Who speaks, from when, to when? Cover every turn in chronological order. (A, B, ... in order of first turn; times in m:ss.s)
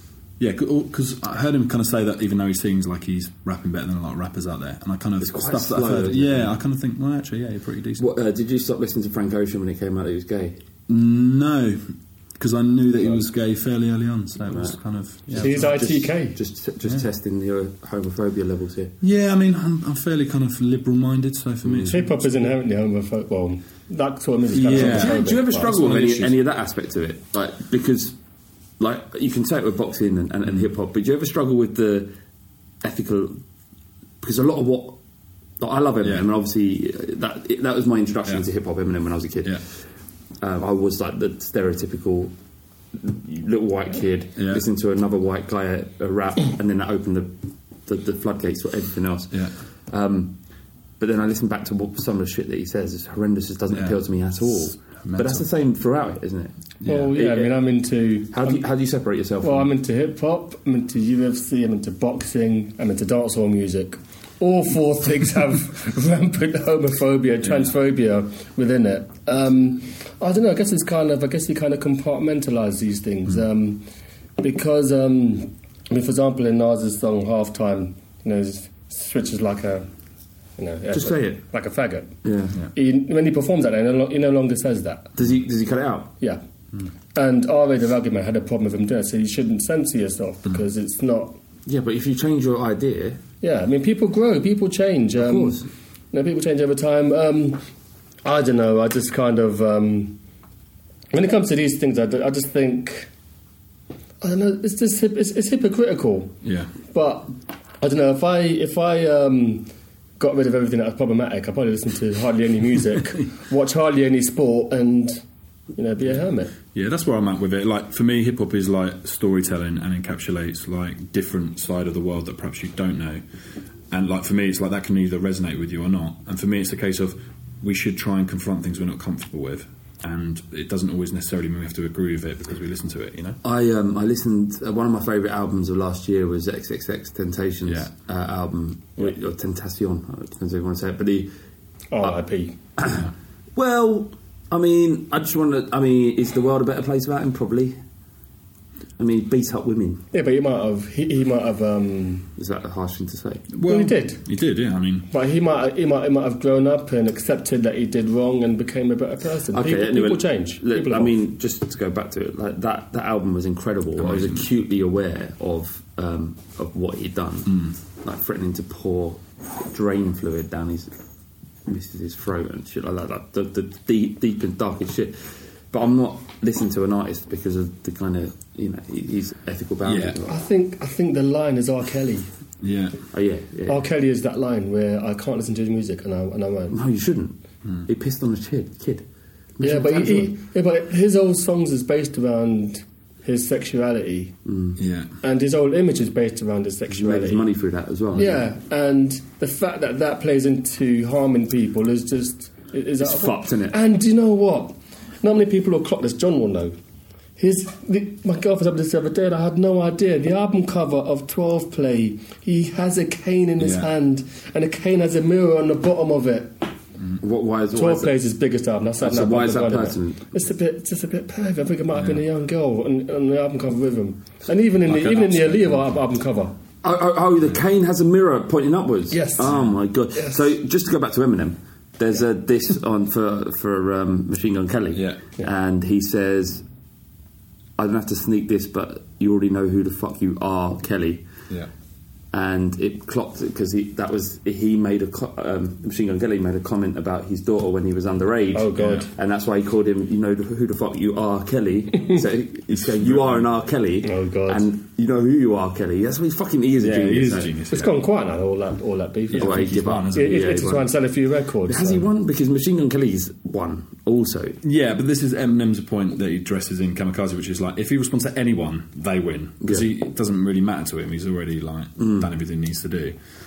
0:00.4-0:08.1 A
0:05.2-0:06.5 B
0:08.0-0:10.6 B
0:10.9-0:15.7 A
0:14.5-0:14.8 B
0:15.3-0:19.0 B
0:15.4-0:16.4 C
0:19.0-0:22.3 A
0:21.6-0:21.9 B
0:21.9-0:25.7 C
0:24.5-0:26.4 A
0:24.6-0:28.2 B
0:28.8-0:32.1 B
0:32.8-0:33.4 B
0:34.2-0:35.0 B
0:35.6-0:39.6 B
0:40.4-0:42.3 B
0:43.0-0:47.4 B
0:44.4-0:44.6 A
0:47.9-0:50.4 B
0:51.0-0:57.6 B
0:53.7-0:55.5 A
0:56.8-0:57.1 A
0:56.9-0:58.6 C
0:58.3-0:59.7 B
0:59.4-1:19.9 C
1:20.6-1:22.1 C
1:20.9-1:21.4 B
1:22.2-1:22.6 B
1:22.7-1:25.1 C
1:25.2-1:26.1 B
1:27.2-1:31.4 C
1:31.7-1:33.2 B
1:33.4-1:37.6 C
1:35.2-1:35.7 B
1:38.2-1:40.2 C
1:41.1-1:43.1 C
1:44.2-1:46.4 C
1:46.4-1:46.7 A
1:46.9-1:55.2 C
1:55.8-1:56.5 C
1:56.7-2:03.2 A
2:03.9-2:13.4 A
2:13.4-2:21.3 B
2:21.9-2:22.6 C
2:22.8-2:23.0 B
2:22.8-2:23.1 A
2:23.6-2:27.8 B
2:29.0-2:30.1 B
2:30.1-2:32.3 C
2:32.4-2:33.5 B
2:33.5-2:35.1 A
2:33.6-2:34.2 C
2:35.1-2:41.1 C
2:39.5-2:50.9 B
2:44.0-2:44.5 A
2:47.5-2:47.8 A
2:51.7-3:00.4 B
2:59.8-3:00.2 A
3:00.3-3:02.3 C
3:02.6-3:03.0 A
3:03.1-3:03.8 B
3:03.7-3:06.8 C
3:06.7-3:09.0 B
3:09.6-3:10.3 B
3:09.6-3:14.4 C
3:14.5-3:14.8 B
3:14.8-3:15.2 A
3:15.2-3:17.4 C
3:16.9-3:18.4 B
3:18.2-3:26.8 C
3:23.0-3:23.8 B
3:27.4-3:36.7 C
3:33.6-3:33.9 A
3:37.2-3:38.2 B
3:37.7-3:46.6 C
3:39.0-3:40.3 B
3:44.8-3:45.9 A
3:46.8-3:56.6 B
3:49.1-3:49.5 C
3:50.2-3:50.4 C
3:54.9-3:55.2 A
3:57.8-4:01.3 B
4:02.3-4:17.6 B
4:08.5-4:09.1 C
4:08.8-4:09.1 A
4:12.7-4:13.5 A
4:14.0-4:14.6 C
4:16.8-4:17.9 A
4:17.7-4:22.1 C
4:19.3-4:20.8 A
4:19.3-4:20.9 B
4:21.7-4:24.6 B
4:24.6-4:33.2 A
4:29.6-4:29.9 B
4:32.0-4:32.3 B